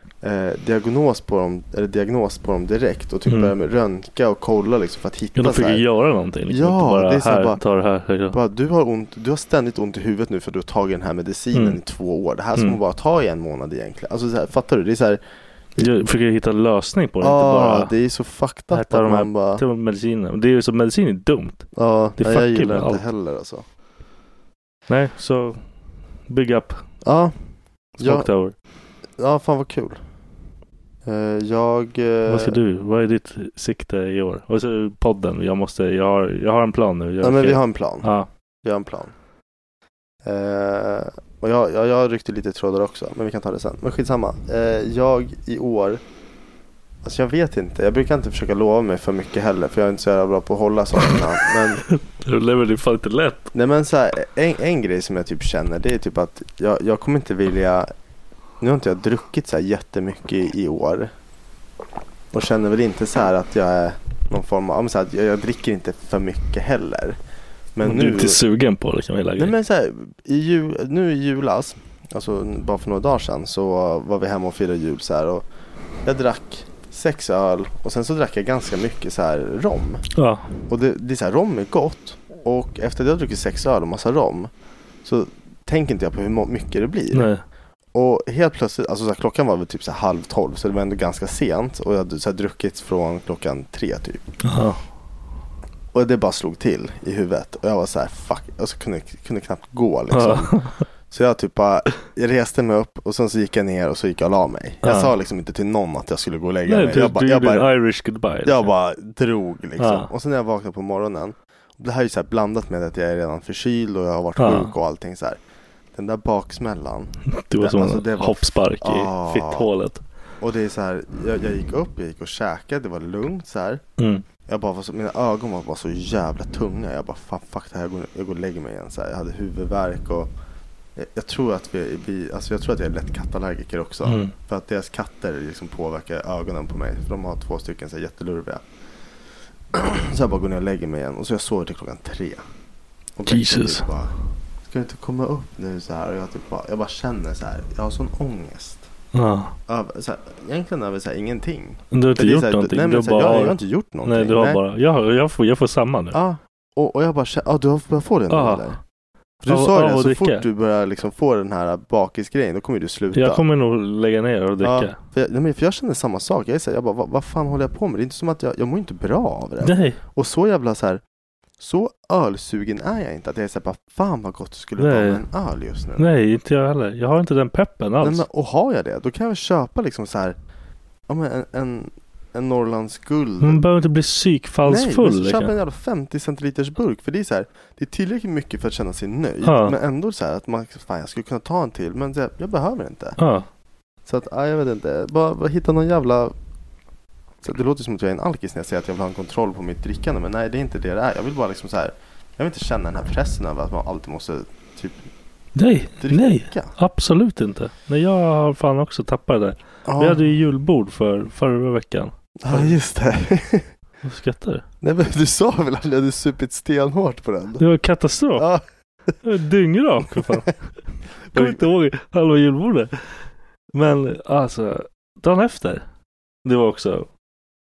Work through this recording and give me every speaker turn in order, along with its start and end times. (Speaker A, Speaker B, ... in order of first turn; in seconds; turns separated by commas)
Speaker A: 0.2-5.8, Speaker B: 3.3-3.5, Speaker B: 5.4-8.4, Speaker A: 6.5-7.6, Speaker A: 8.3-15.2, Speaker B: 11.5-11.8, Speaker B: 15.8-17.9, Speaker A: 17.2-19.6, Speaker B: 18.7-21.7, Speaker A: 21.8-23.6, Speaker B: 22.2-23.0, Speaker B: 24.9-25.6, Speaker B: 26.3-26.8, Speaker A: 27.0-27.3, Speaker B: 28.0-28.5, Speaker A: 28.0-28.3, Speaker A: 29.2-30.0, Speaker A: 31.1-32.6, Speaker B: 32.3-38.3, Speaker A: 37.2-38.1, Speaker A: 38.6-39.1, Speaker A: 40.2-46.0, Speaker A: 47.0-51.8, Speaker B: 51.9-53.5, Speaker A: 53.5-57.9, Speaker A: 58.6-61.1, Speaker A: 62.3-67.2, Speaker A: 67.8-68.4, Speaker B: 67.8-69.5, Speaker A: 69.4-75.5, Speaker A: 76.0-80.0, Speaker B: 80.2-80.5, Speaker A: 80.7-84.5, Speaker A: 85.0-87.3, Speaker B: 87.1-87.4, Speaker A: 87.9-94.3, Speaker B: 94.4-94.8, Speaker A: 95.9-100.6, Speaker B: 100.1-100.8, Speaker A: 101.1-107.7, Speaker B: 104.8-105.1, Speaker B: 106.7-108.7, Speaker A: 108.4-115.4, Speaker B: 109.8-110.1, Speaker B: 114.4-114.7, Speaker A: 115.9-119.7, Speaker B: 117.3-120.0, Speaker A: 120.4-123.8, Speaker B: 124.0-124.3, Speaker A: 124.5-130.3, Speaker A: 131.0-138.6, Speaker B: 134.0-134.3, Speaker A: 139.7-142.4, Speaker A: 143.2-144.1, Speaker B: 143.3-143.9, Speaker A: 144.7-148.9, Speaker B: 149.1-149.6, Speaker A: 149.7-154.6, Speaker B: 151.9-156.2, Speaker A: 156.1-158.8, Speaker B: 158.3-158.8, Speaker A: 159.4-163.4, Speaker B: 159.5-160.5, Speaker B: 163.1-165.0, Speaker A: 164.6-171.0, Speaker B: 169.6-170.0, Speaker A: 171.6-176.1, Speaker B: 174.8-175.2, Speaker B: 176.0-178.2, Speaker A: 178.0-180.4, Speaker A: 181.1-183.7, Speaker B: 183.4-185.5, Speaker A: 184.7-193.2, Speaker B: 189.4-189.8, Speaker B: 193.2-193.5, Speaker A: 194.1-196.3, Speaker A: 197.4-205.1, Speaker B: 205.6-212.8, Speaker A: 206.0-206.7, Speaker A: 209.9-210.2, Speaker A: 212.4-213.7, Speaker B: 214.0-214.6, Speaker A: 214.8-217.7, Speaker B: 217.6-218.5, Speaker A: 218.4-218.6, Speaker B: 219.2-220.6, Speaker A: 220.2-220.5, Speaker A: 221.3-221.6, Speaker B: 221.3-223.2, Speaker B: 223.7-225.8, Speaker B: 226.4-227.1